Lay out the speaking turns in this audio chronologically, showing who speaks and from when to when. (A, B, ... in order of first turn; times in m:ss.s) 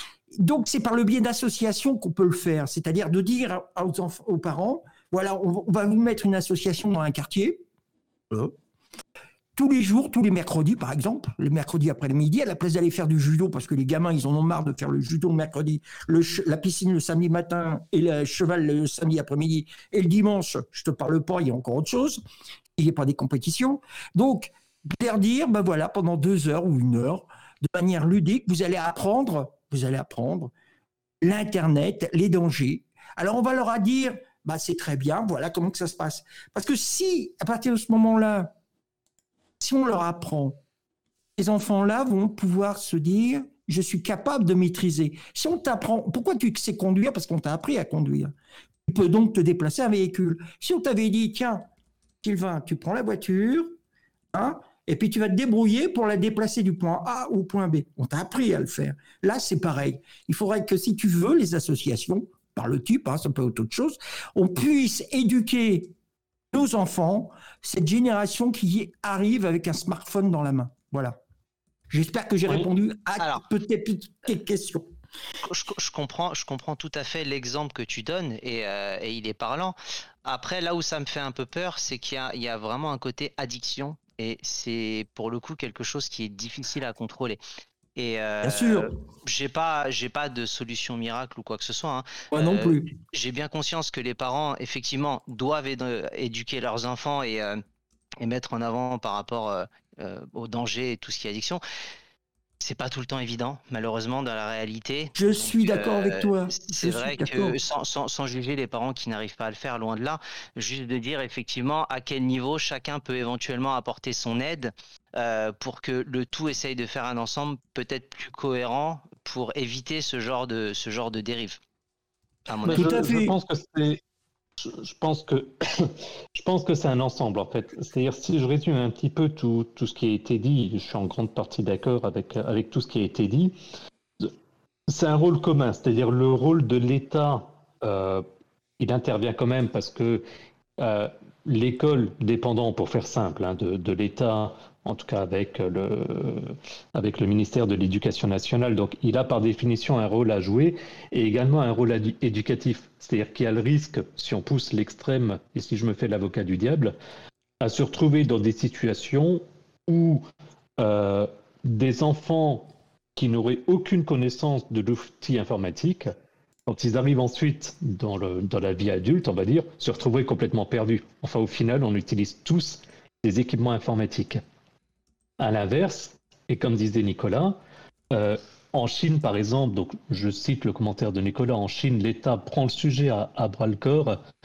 0:00.3-0:07.6 A
0:08.3-0:08.5 A
0:09.6-0:22.2 A
0:22.8-0:30.5 A
0:31.2-0:38.5 A
0:39.6-0:40.6 A
0:41.4-0:48.3 A
0:48.8-0:51.6 A
0:52.2-0:53.7 A
0:54.3-1:05.9 A
1:06.5-1:11.2 A
1:11.9-1:14.9 A
1:15.4-1:27.4 B
1:28.0-1:37.6 B
1:28.4-1:28.9 A
1:32.3-1:32.9 A
1:38.2-1:41.6 B
1:42.6-2:01.6 B
1:45.2-1:47.6 A
2:02.5-2:03.1 B
2:02.6-2:04.0 C
2:02.7-2:03.3 A
2:04.6-2:13.5 C
2:14.9-2:18.2 C
2:18.8-2:20.2 C
2:20.8-2:37.0 C
2:37.6-2:40.2 C
2:40.8-2:46.1 C
2:46.7-2:54.4 C
2:55.4-2:57.6 C
2:58.1-3:04.2 C